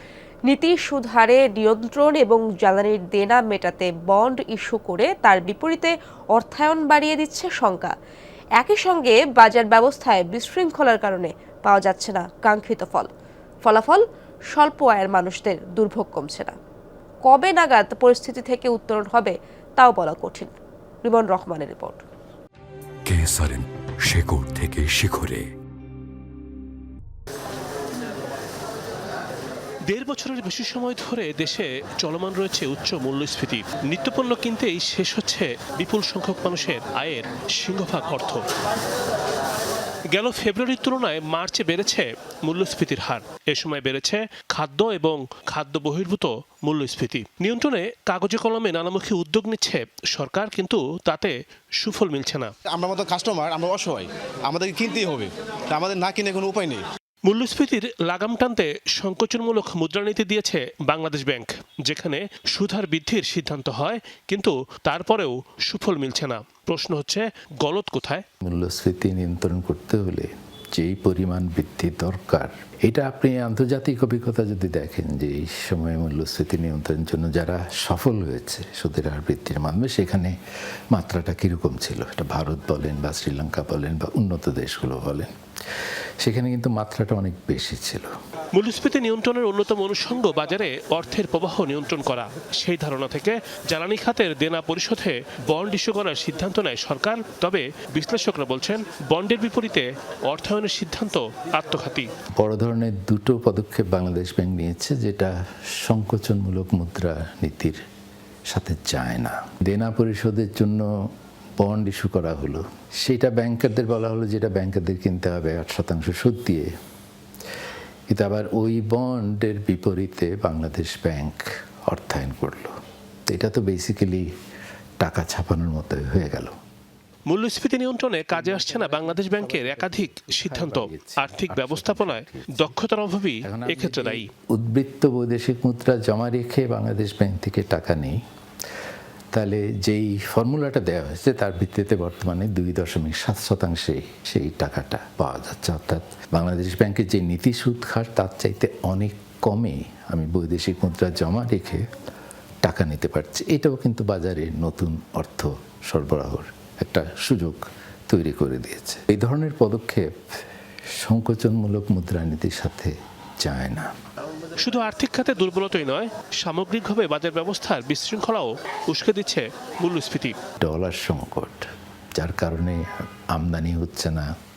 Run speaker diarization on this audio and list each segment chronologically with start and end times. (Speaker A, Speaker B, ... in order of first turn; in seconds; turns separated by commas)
Speaker A: 0.5-7.9, Speaker A: 8.6-13.1, Speaker A: 13.7-16.6, Speaker A: 17.2-22.0, Speaker B: 23.1-25.5, Speaker C: 29.9-38.4, Speaker C: 40.1-52.5, Speaker D: 52.7-56.8, Speaker C: 57.3-68.2, Speaker E: 68.4-80.3, Speaker E: 80.9-85.3, Speaker E: 86.2-88.1, Speaker C: 88.5-102.1, Speaker E: 102.4-107.8, Speaker E: 108.5-110.9, Speaker E: 111.6-116.7, Speaker E: 118.1-122.7, Speaker E: 123.3-124.2, Speaker E: 125.0-126.5, Speaker C: 127.3-134.3, Speaker E: 128.3-132.8, Speaker E: 133.4-138.2, Speaker E: 139.3-151.8, Speaker E: 152.6-160.1, Speaker E: 161.0-163.9, Speaker C: 164.6-170.4, Speaker E: 170.6-171.7, Speaker E: 172.2-172.8, Speaker E: 173.3-174.3